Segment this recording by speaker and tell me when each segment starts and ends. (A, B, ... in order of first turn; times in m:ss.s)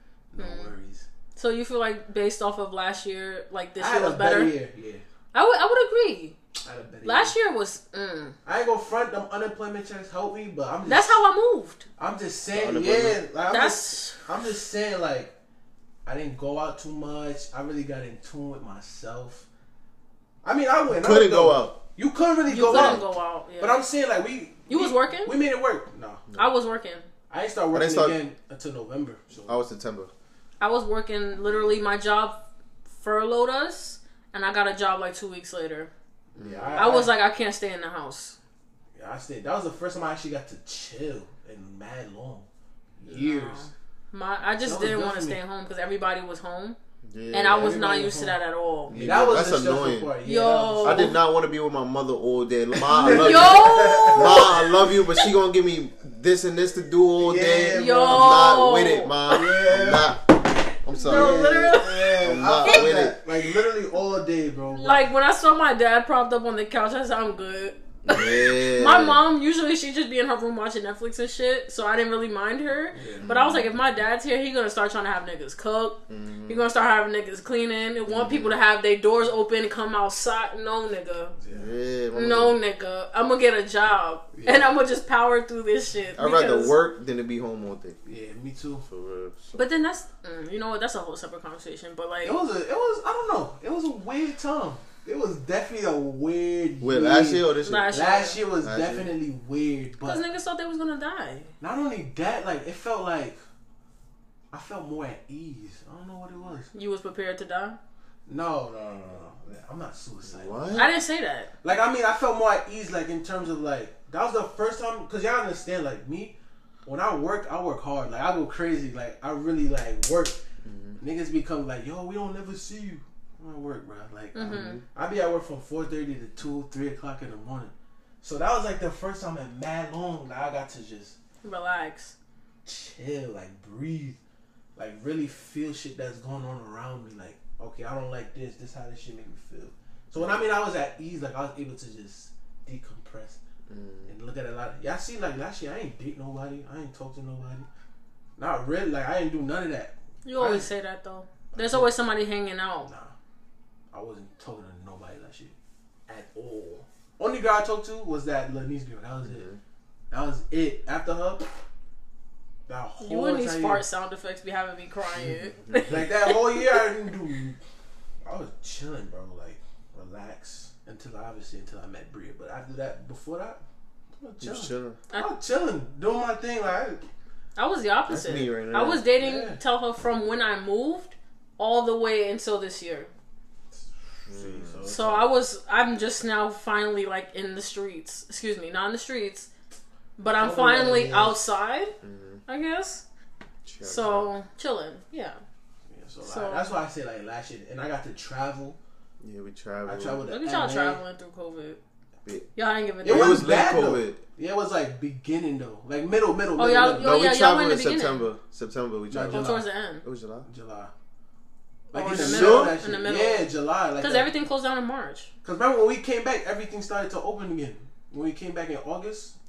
0:00.3-0:01.0 A
0:00.4-0:00.7 B
0:01.4-0:04.5 B
0:03.8-0:05.0 A
0:05.3-0:06.4 B
0:06.6-0:07.3 A
0:07.0-0:08.4 B
0:08.4-0:11.2 A
0:10.8-0:11.9 B
0:12.0-0:15.3 A
0:12.5-0:13.2 C
0:13.5-0:14.3 B
0:16.0-0:19.4 A
0:20.4-0:26.2 A
0:20.9-0:21.8 C
0:22.5-0:23.8 B
0:22.6-0:23.0 C
0:24.7-0:25.3 B
0:26.3-0:27.1 B
0:27.3-0:29.6 A
0:27.7-0:28.2 C
0:29.4-0:30.1 C
0:30.6-0:35.9 B
0:36.3-0:37.1 A
0:36.4-0:37.0 C
0:36.8-0:38.4 B
0:39.0-0:42.5 A
0:43.0-0:43.7 A
0:43.1-0:46.8 B
0:44.6-0:45.4 A
0:47.0-0:47.8 C
0:47.3-0:49.0 B
0:47.4-0:51.2 A
0:48.9-0:50.1 C
0:50.2-0:51.2 B
0:50.8-1:03.2 C
0:52.7-0:54.7 A
0:53.0-0:55.2 B
0:57.2-0:58.6 A
0:57.7-0:59.4 B
0:59.3-1:00.2 A
1:00.9-1:03.0 B
1:01.0-1:05.1 A
1:04.7-1:21.4 B
1:08.0-1:09.2 C
1:12.9-1:13.3 A
1:13.2-1:13.8 C
1:16.1-1:16.6 C
1:18.1-1:18.6 C
1:21.4-1:21.7 A
1:21.5-1:22.6 C
1:22.1-1:26.8 B
1:24.3-1:24.8 A
1:26.2-1:28.0 C
1:28.0-1:28.8 A
1:28.9-1:29.6 C
1:29.6-1:32.4 B
1:32.2-1:40.2 A
1:36.8-1:38.0 C
1:37.6-1:38.4 B
1:38.6-1:39.1 C
1:40.0-1:41.5 B
1:41.6-1:43.4 A
1:44.5-1:46.7 A
1:46.7-1:47.8 B
1:48.3-1:50.8 A
1:50.2-1:50.9 C
1:50.7-1:51.5 B
1:51.6-2:00.4 A
2:00.6-2:01.0 C
2:01.0-2:11.2 A
2:04.3-2:04.8 B
2:04.4-2:04.8 C
2:11.4-2:12.1 B
2:12.6-2:14.2 A
2:14.8-2:23.4 A
2:20.2-2:20.4 C
2:23.7-2:24.1 C
2:24.1-2:27.7 A
2:28.4-2:30.7 A
2:30.2-2:32.9 B
2:31.5-2:31.9 A
2:32.9-2:33.1 A
2:33.9-2:35.5 A
2:36.1-2:39.5 A
2:39.3-2:39.6 C
2:40.1-2:41.5 A
2:42.7-2:43.8 A
2:43.0-2:46.9 B
2:45.7-2:46.0 C
2:45.8-2:47.6 A
2:48.2-2:53.6 A
2:54.2-2:57.0 A
2:54.4-2:55.0 C
2:57.6-3:03.1 B
2:58.1-2:59.0 C
2:59.2-2:59.6 A
3:04.1-3:05.3 A
3:04.3-3:04.8 C
3:04.8-3:09.5 B
3:10.2-3:11.9 B
3:10.3-3:11.4 A
3:12.0-3:12.4 C
3:12.5-3:13.0 B
3:13.6-3:14.3 C
3:13.8-3:15.4 B
3:15.9-3:18.8 A
3:16.2-3:16.7 B
3:19.2-3:20.2 C
3:19.8-3:21.0 A
3:20.3-3:21.8 B
3:22.6-3:23.5 B
3:23.0-3:27.1 A
3:23.0-3:24.2 C
3:26.6-3:28.3 B
3:26.9-3:29.5 C
3:29.1-3:29.7 A
3:29.3-3:30.0 B
3:30.0-3:30.5 C
3:30.4-3:30.9 A
3:31.9-3:34.3 A
3:31.9-3:35.3 B
3:32.1-3:32.8 C
3:35.4-3:39.4 A